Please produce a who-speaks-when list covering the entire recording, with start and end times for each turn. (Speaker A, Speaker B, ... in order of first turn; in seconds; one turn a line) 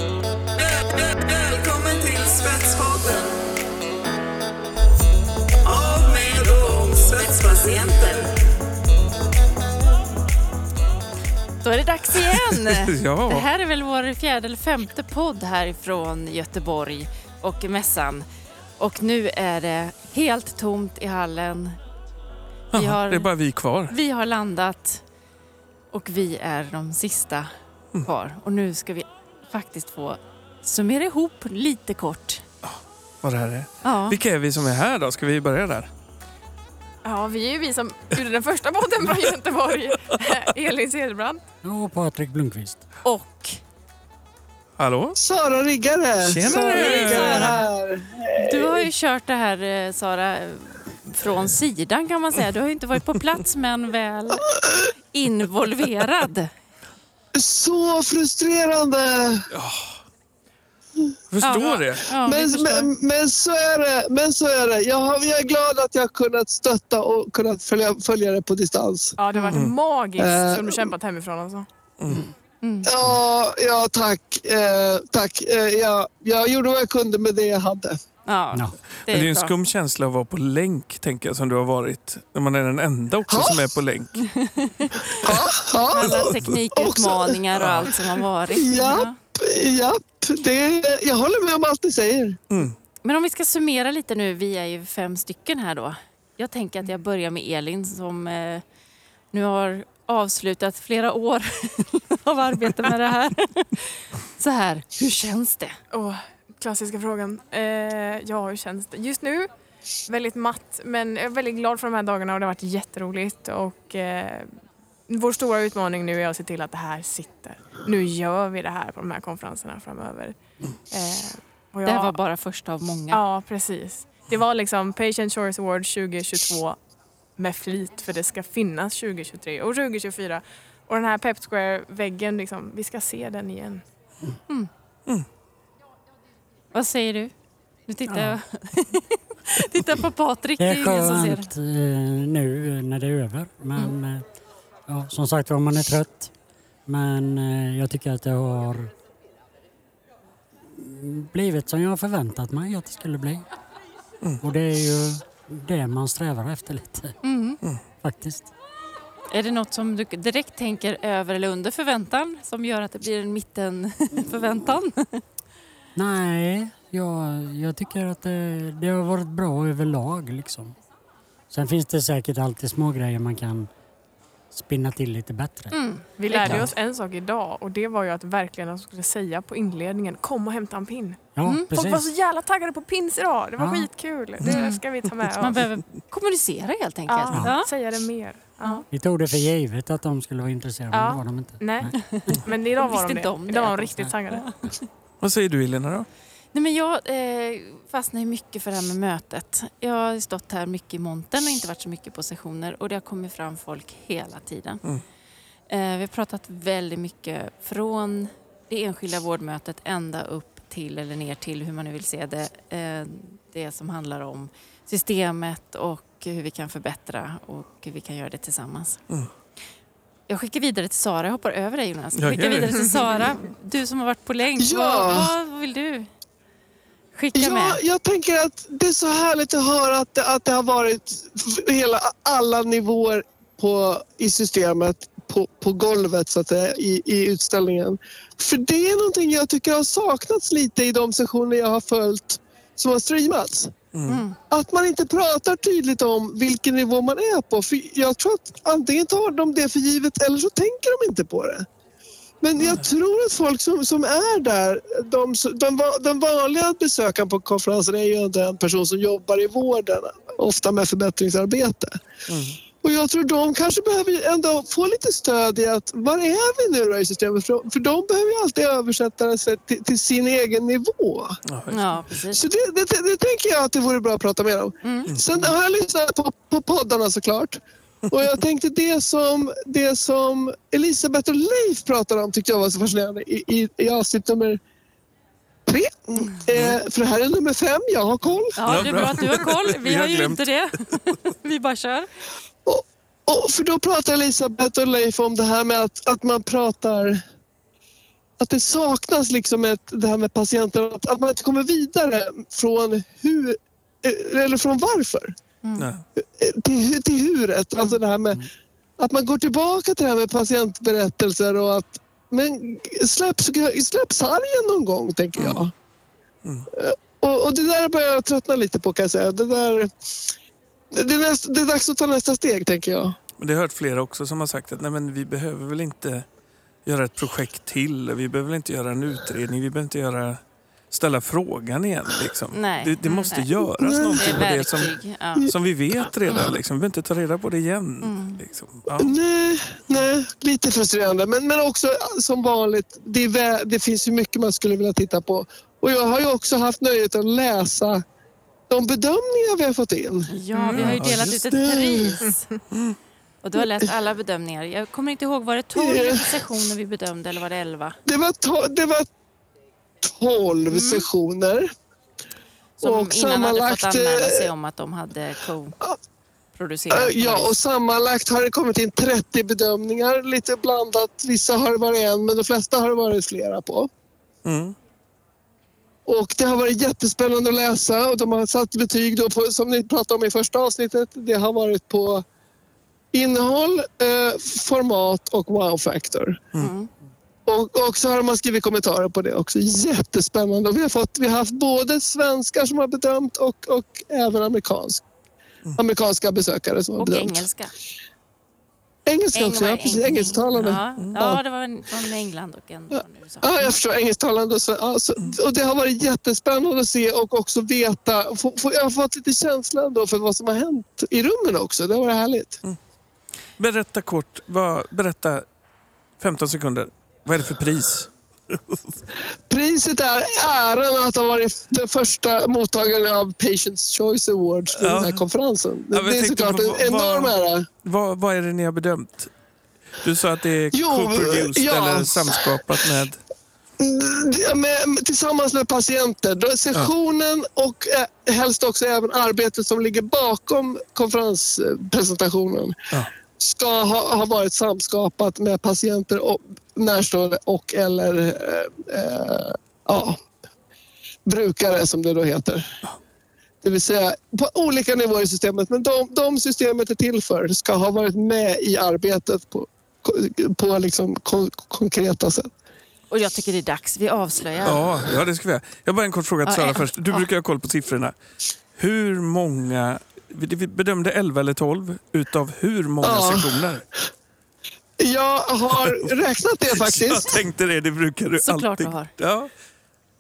Speaker A: 0.9-3.3
Speaker A: 5.7-8.3
Speaker A: 11.6-18.2
Speaker B: 12.4-13.5
Speaker A: 18.8-21.8
Speaker B: 22.7-23.9
Speaker A: 22.7-23.3
Speaker A: 23.9-25.0
Speaker A: 25.9-27.5
Speaker A: 28.0-32.4
Speaker B: 32.6-35.9
Speaker A: 33.8-34.2
Speaker C: 37.0-41.4
Speaker D: 41.6-42.9
Speaker A: 43.0-43.6
Speaker B: 44.8-45.2
Speaker E: 45.2-48.9
Speaker B: 46.2-47.6
Speaker A: 46.4-47.6
Speaker A: 48.4-54.5
Speaker E: 54.5-54.9
Speaker A: 55.1-56.5
Speaker E: 57.3-59.5
Speaker B: 59.5-60.0
Speaker B: 61.3-62.1
Speaker A: 61.4-62.9
Speaker E: 62.2-69.2
Speaker C: 69.2-71.7
Speaker A: 69.3-69.6
Speaker E: 70.2-70.9
Speaker B: 72.0-72.3
Speaker A: 72.6-72.9
Speaker E: 72.9-78.0
Speaker A: 78.3-79.6
Speaker B: 79.0-84.2
Speaker E: 83.3-83.8
Speaker A: 84.2-85.2
Speaker E: 85.2-87.4
Speaker A: 85.9-89.2
Speaker B: 86.0-86.5
Speaker B: 87.6-88.0
Speaker E: 88.5-92.4
Speaker A: 93.0-98.6
Speaker A: 99.3-105.8
Speaker C: 105.9-109.5
Speaker C: 110.1-114.6
Speaker C: 115.1-120.4
Speaker C: 120.9-122.2
Speaker A: 121.8-123.2
Speaker C: 123.1-126.8
Speaker C: 127.4-133.8
Speaker A: 136.7-137.3
Speaker A: 137.9-141.5
Speaker D: 138.1-138.4
Speaker D: 140.6-144.2
Speaker D: 144.9-146.3
Speaker D: 146.9-148.9
Speaker D: 150.7-153.5
Speaker D: 154.4-157.2
Speaker A: 157.2-157.6
Speaker D: 158.0-158.5
Speaker A: 159.3-165.2
Speaker D: 166.0-170.8
Speaker D: 171.5-173.7
Speaker D: 174.5-175.8
Speaker A: 175.7-176.7
Speaker C: 176.2-181.2
Speaker D: 181.3-182.1
Speaker A: 181.4-181.7
Speaker C: 181.7-185.6
Speaker D: 183.6-183.9
Speaker A: 184.4-184.8
Speaker A: 185.4-187.7
Speaker C: 187.1-188.8
Speaker D: 188.9-192.3
Speaker C: 190.9-194.5
Speaker A: 191.9-192.3
Speaker A: 192.8-194.9
Speaker B: 195.2-196.1
Speaker A: 196.5-204.8
Speaker A: 205.7-219.0
Speaker A: 220.3-226.1
Speaker B: 222.2-222.9
Speaker E: 224.6-225.3
Speaker A: 227.1-227.8
Speaker E: 227.3-243.7
Speaker B: 243.9-244.2
Speaker A: 244.1-244.4
Speaker E: 244.4-251.7
Speaker E: 252.4-262.0
Speaker B: 252.6-252.8
Speaker B: 262.3-262.6
Speaker E: 262.8-271.4
Speaker B: 271.5-271.9
Speaker A: 271.7-272.4
Speaker E: 272.3-284.6
Speaker A: 274.8-275.1
Speaker B: 275.1-275.5
Speaker E: 285.7-289.3
Speaker A: 288.6-292.1
Speaker B: 288.6-290.5
Speaker E: 292.7-297.2
Speaker E: 298.4-305.4
Speaker A: 305.6-305.9
Speaker B: 305.8-306.0
Speaker E: 306.2-308.5
Speaker E: 309.0-315.7
Speaker B: 315.4-315.6
Speaker E: 316.7-319.9
Speaker E: 320.9-323.2
Speaker B: 323.4-326.3
Speaker B: 326.9-339.1
Speaker A: 332.5-333.6
Speaker E: 333.8-334.6
Speaker A: 334.1-335.5
Speaker A: 338.0-338.4
Speaker E: 339.0-348.0
Speaker E: 348.7-350.3
Speaker A: 350.3-352.5
Speaker C: 350.5-350.9
Speaker B: 350.7-351.4
Speaker E: 351.3-352.1
Speaker A: 353.4-358.0
Speaker E: 355.8-356.4
Speaker E: 358.1-359.1
Speaker E: 360.0-361.7
Speaker A: 360.7-361.1
Speaker A: 362.8-365.8
Speaker E: 362.8-364.5
Speaker A: 366.6-367.6
Speaker E: 366.9-373.9
Speaker B: 374.4-374.8
Speaker E: 376.1-382.2
Speaker E: 383.1-386.4
Speaker A: 386.6-386.9
Speaker E: 387.5-395.0
Speaker E: 395.8-397.4
Speaker A: 397.0-397.7
Speaker E: 399.1-401.4
Speaker A: 399.3-403.7
Speaker E: 402.9-412.6
Speaker B: 413.6-415.4
Speaker B: 416.2-418.9
Speaker E: 419.5-427.7
Speaker B: 424.7-425.3
Speaker B: 425.9-429.3
Speaker B: 430.0-433.2
Speaker E: 430.7-432.8
Speaker E: 433.8-442.8
Speaker E: 443.4-450.2
Speaker E: 451.3-452.8
Speaker E: 453.6-462.5
Speaker A: 463.1-464.9
Speaker B: 464.6-468.1
Speaker A: 466.4-467.3
Speaker B: 468.8-473.8
Speaker E: 473.0-473.8
Speaker E: 475.0-477.4
Speaker B: 475.7-476.1
Speaker B: 476.7-479.5
Speaker A: 478.4-479.1